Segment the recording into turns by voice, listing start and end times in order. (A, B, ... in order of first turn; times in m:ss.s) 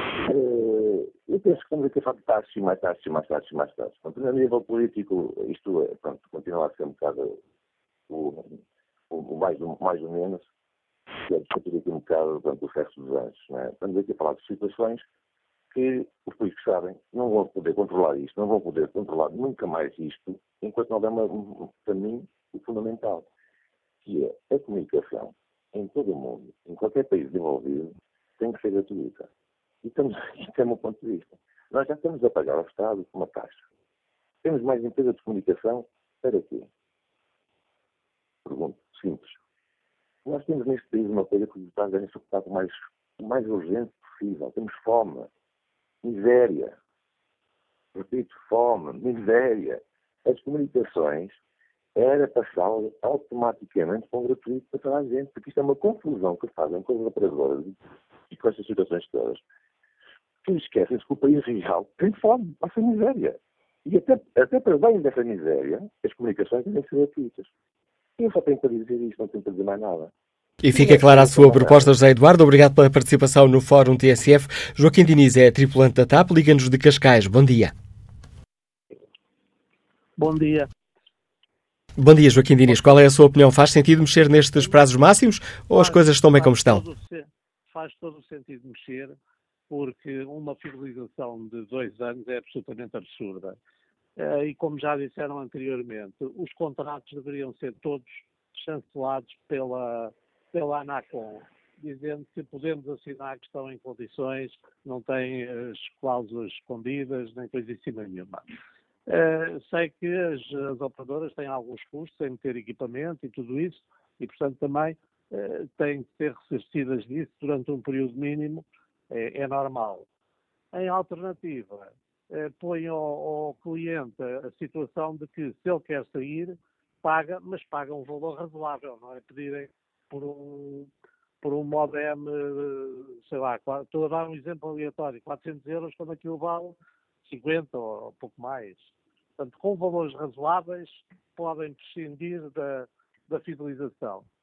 0:00.2-0:07.4 A
0:08.1-0:08.6 A
0:09.1-0:10.5 A
0:11.3-0:15.1 A
0:15.7-0:23.3 A
0:24.0-0:29.3 A
0:29.8-0:33.6 A
0:34.4-0:36.7 A
0:38.4-0:39.4 A
0:40.2-0:45.3 A
0:46.0-0:46.8 A
0:48.0-0:51.4 A
0:52.0-0:59.4 A
1:00.4-1:07.5 A
1:08.2-1:10.1 A
1:10.6-1:17.7 B
1:10.7-1:11.9 A
1:20.2-1:20.7 C
1:22.0-1:26.8 B
1:25.7-1:29.2 C
1:29.7-1:33.6 C
1:34.2-1:48.4 C
1:49.1-2:00.0 C
2:00.7-2:10.9 C
2:11.4-2:24.2 C